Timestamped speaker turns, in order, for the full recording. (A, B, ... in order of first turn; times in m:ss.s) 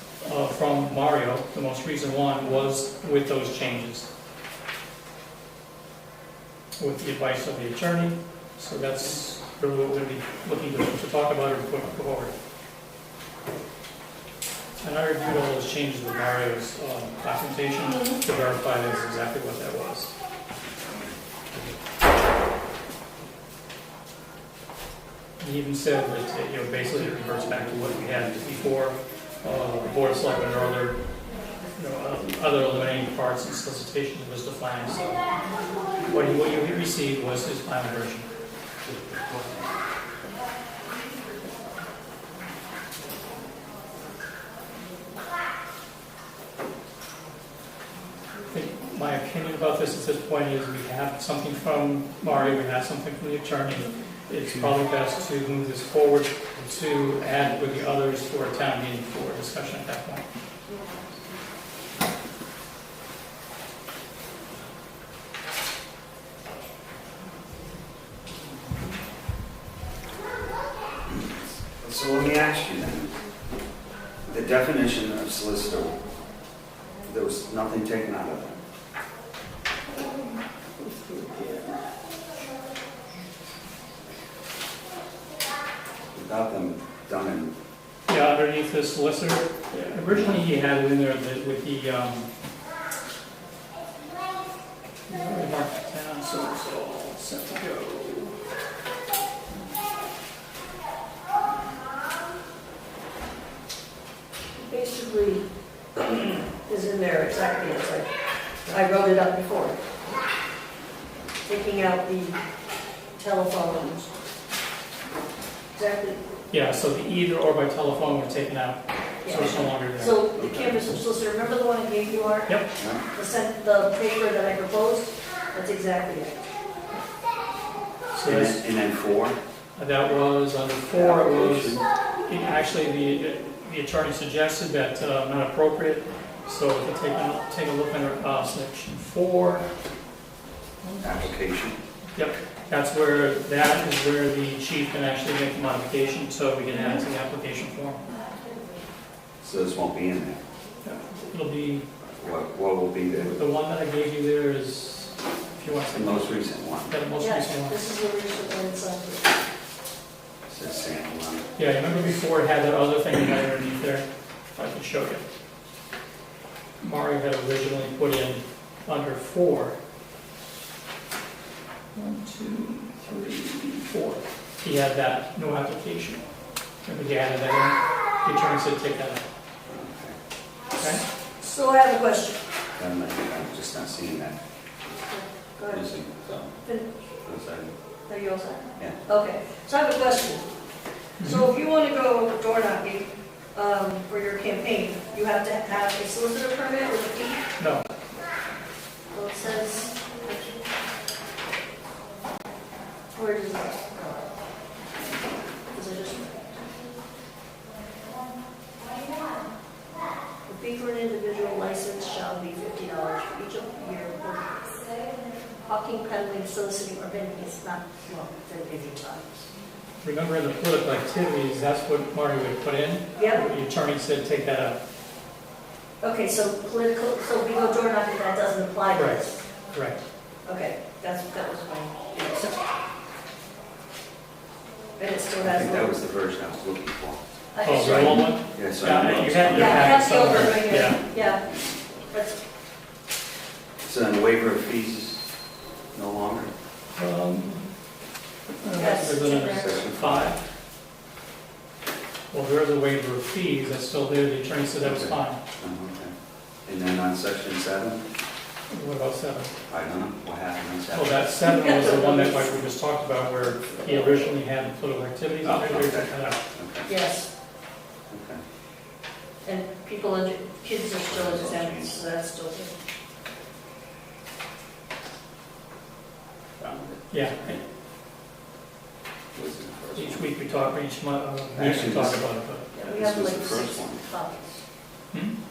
0:00.2-0:04.1 A
0:06.8-0:12.3 A
0:14.8-0:20.1 A
0:17.9-0:18.2 B
0:25.4-0:31.0 A
0:31.8-0:35.2 A
0:36.1-0:38.3 A
0:39.1-0:39.4 C
0:48.5-1:00.2 A
1:11.8-1:13.1 C
1:14.3-1:16.0 C
1:17.0-1:18.6 C
1:20.2-1:21.9 A
1:26.1-1:27.5 C
1:28.1-1:32.3 A
1:30.1-1:30.4 C
1:35.1-1:38.4 A
1:44.5-1:45.4 B
1:46.6-1:48.1 B
1:48.7-1:49.8 B
1:51.5-1:52.4 B
1:53.2-1:54.1 B
1:55.8-1:56.2 B
1:56.5-2:00.2 A
1:59.2-2:06.4 B
2:00.4-2:00.8 C
2:02.8-2:03.0 C
2:08.1-2:08.6 A
2:08.2-2:09.4 C
2:09.8-2:19.7 A
2:10.9-2:11.8 C
2:20.8-2:21.3 A
2:21.0-2:21.8 C
2:22.2-2:28.0 A
2:26.7-2:27.0 B
2:29.4-2:30.4 C
2:30.8-2:31.8 A
2:32.1-2:33.4 C
2:33.1-2:37.8 A
2:35.9-2:37.0 C
2:37.2-2:39.4 B
2:40.5-2:41.5 C
2:41.6-2:45.2 A
2:46.8-2:49.8 A
2:52.0-2:56.2 A
2:56.8-2:59.2 A
2:59.6-3:00.2 C
3:00.8-3:01.0 A
3:01.4-3:02.4 B
3:02.8-3:04.4 C
3:05.0-3:05.9 B
3:05.7-3:06.5 C
3:06.6-3:06.9 B
3:07.2-3:07.7 C
3:08.1-3:10.5 B
3:11.2-3:11.5 A
3:11.2-3:17.4 B
3:17.6-3:17.8 A
3:19.1-3:20.6 B
3:23.2-3:24.3 B
3:25.7-3:26.8 B
3:30.5-3:34.9 B
3:35.6-3:39.5 B
3:40.0-3:44.8 A
3:43.2-3:43.4 B
3:46.0-3:49.4 B
3:49.0-3:50.0 A
3:50.4-3:52.6 B
3:55.0-3:56.0 B
3:55.4-4:02.0 C
3:57.5-3:58.4 B
3:57.6-4:01.0 A
3:59.5-4:01.4 B
4:02.1-4:02.4 B
4:03.8-4:05.4 C
4:05.9-4:06.5 C
4:06.9-4:07.7 A
4:08.6-4:10.4 A
4:08.7-4:09.8 B
4:09.4-4:10.4 C
4:12.3-4:15.4 A
4:14.8-4:16.1 C
4:16.7-4:18.0 C
4:18.7-4:19.5 A
4:19.7-4:21.3 C
4:20.9-4:26.4 A
4:21.4-4:22.6 B
4:23.9-4:24.1 C
4:25.4-4:26.9 C
4:26.9-4:27.3 B
4:28.1-4:28.4 C
4:29.4-4:32.8 B
4:31.0-4:32.0 C
4:36.6-4:37.6 C
4:37.1-4:37.6 A
4:39.3-4:40.3 C
4:40.0-4:42.7 A
4:41.6-4:42.3 C
4:42.7-4:44.6 B
4:42.8-4:44.0 C